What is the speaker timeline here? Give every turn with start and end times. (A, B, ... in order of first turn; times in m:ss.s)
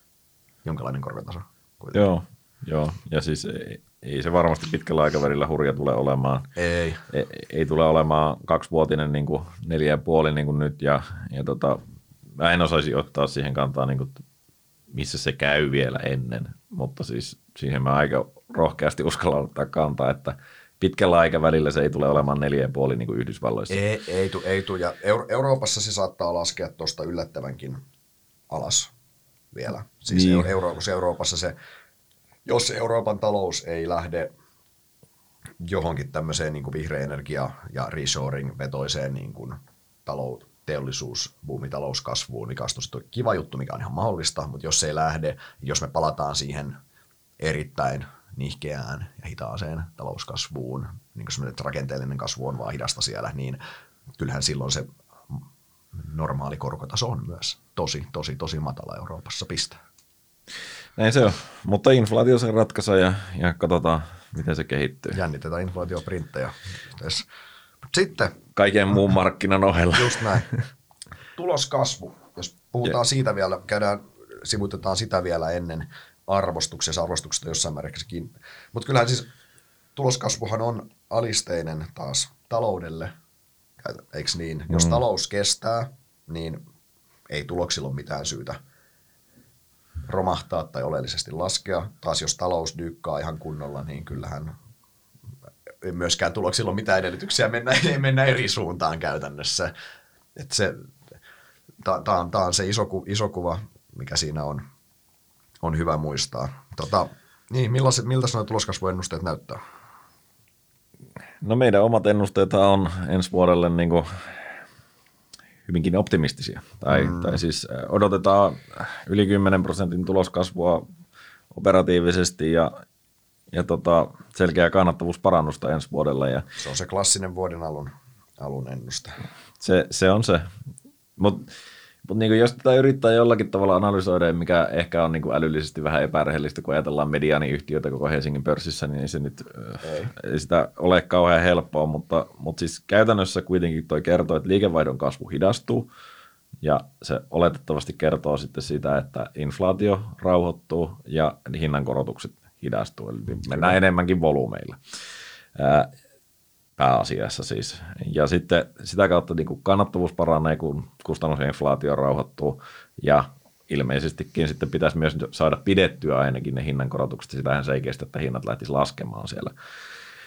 0:00.6-0:02.1 A
0:01.9-0:06.5 B
0:06.6-0:07.0 A
0:07.1-0:11.8 B
0:12.4-0:14.2 B
0:14.9-0:23.8 B
0:23.7-0:27.8 A
0:28.5-0:28.9 A
0:29.5-0:31.6 A
0:30.1-0:30.5 B
0:32.5-0:34.3 A
0:35.6-0:46.8 A
0:47.4-0:53.6 A
0:54.2-0:55.4 A
0:56.0-0:59.8 A
1:01.0-1:05.2 B
1:05.1-1:07.2 A
1:07.9-1:08.4 A
1:08.6-1:10.6 B
1:09.9-1:10.5 A
1:11.4-1:19.3 A
1:20.0-1:23.1 A
1:23.8-1:26.6 A
1:24.7-1:25.0 B
1:27.3-1:28.6 A
1:30.1-1:34.6 A
1:35.8-1:39.7 A
1:40.4-1:40.9 A
1:41.8-1:44.6 A
1:45.6-1:49.6 A
1:51.4-1:54.5 B
1:55.7-2:00.8 B
1:56.9-1:57.4 A
2:01.5-2:02.7 B
2:03.5-2:06.5 B
2:06.6-2:09.2 A
2:09.6-2:10.5 B
2:11.2-2:11.5 B
2:12.0-2:25.9 B
2:19.8-2:20.1 A
2:26.6-2:35.0 B
2:33.5-2:33.7 A
2:35.6-2:35.9 B
2:36.8-2:49.5 B